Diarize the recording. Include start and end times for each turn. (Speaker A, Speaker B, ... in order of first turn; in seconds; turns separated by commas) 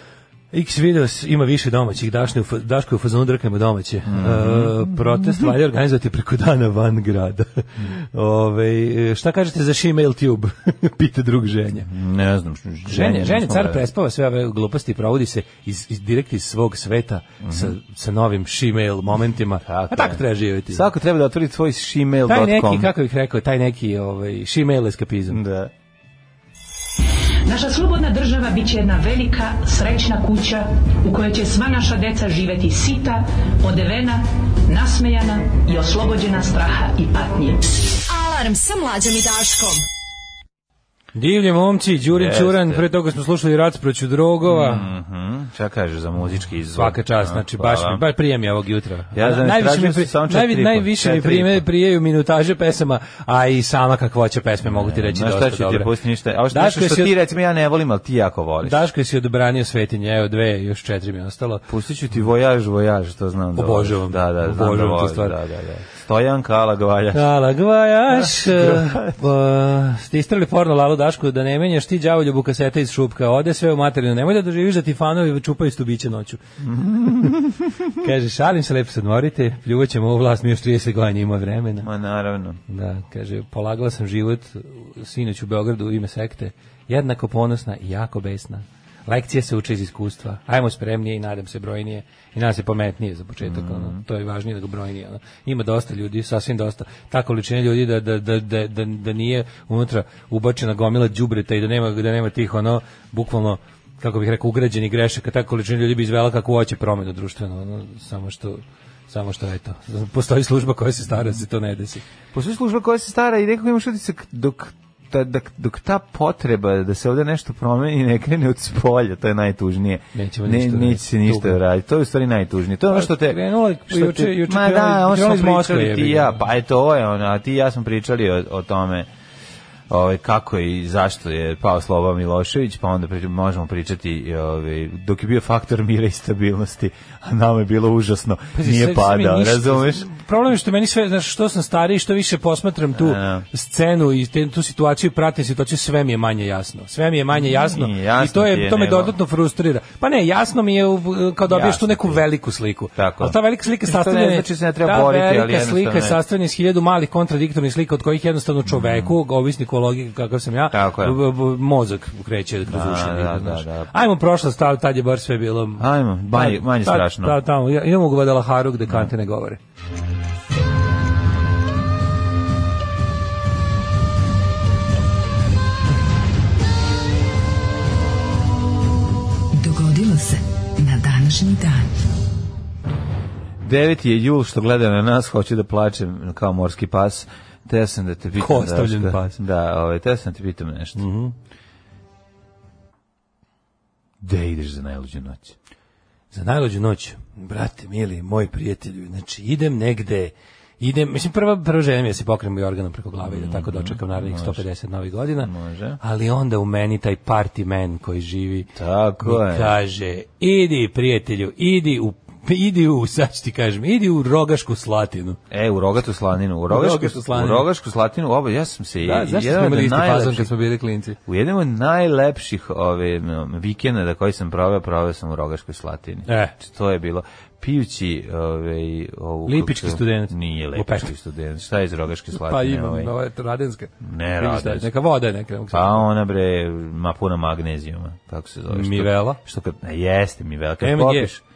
Speaker A: 0.5-11.9, Speaker B: 4.0-5.4, Speaker B: 11.9-13.8, Speaker A: 12.9-20.9, Speaker B: 17.4-17.7, Speaker B: 19.6-22.9, Speaker A: 22.3-25.4, Speaker B: 25.3-25.7, Speaker C: 27.4-37.6, Speaker D: 38.1-39.8, Speaker A: 41.1-44.9, Speaker B: 42.1-42.9, Speaker B: 44.4-48.0, Speaker A: 46.7-55.9, Speaker B: 49.1-51.6, Speaker B: 54.6-58.8, Speaker A: 56.5-57.1, Speaker A: 58.6-61.6, Speaker B: 61.7-67.3, Speaker A: 63.5-65.3, Speaker A: 67.1-76.4, Speaker B: 68.1-69.2, Speaker B: 76.6-77.5, Speaker A: 77.0-77.3, Speaker A: 78.0-81.9, Speaker B: 81.8-82.6, Speaker A: 82.7-112.0, Speaker B: 93.4-94.0, Speaker B: 112.3-129.1, Speaker A: 120.1-121.6, Speaker A: 122.9-126.4, Speaker B: 129.9-140.1, Speaker A: 138.5-169.6, Speaker B: 142.9-143.4, Speaker B: 147.3-149.2, Speaker B: 151.5-152.2, Speaker B: 152.9-156.2, Speaker B: 158.7-159.1, Speaker B: 160.7-161.2, Speaker B: 162.7-163.9, Speaker B: 165.8-167.4, Speaker D: 179.6-181.8, Speaker B: 183.6-191.0, Speaker A: 188.3-189.4, Speaker A: 190.9-191.3, Speaker B: 194.2-195.6, Speaker A: 196.3-208.7, Speaker B: 203.2-204.6, Speaker B: 205.4-206.0, Speaker B: 208.8-209.8, Speaker A: 209.2-215.4, Speaker B: 215.5-220.5, Speaker A: 216.7-217.7, Speaker A: 219.0-221.2, Speaker B: 221.2-233.1, Speaker A: 226.3-226.5, Speaker A: 229.4-231.1, Speaker A: 232.3-236.1, Speaker B: 234.0-234.9, Speaker B: 235.7-241.4, Speaker A: 238.7-239.4, Speaker A: 240.8-241.3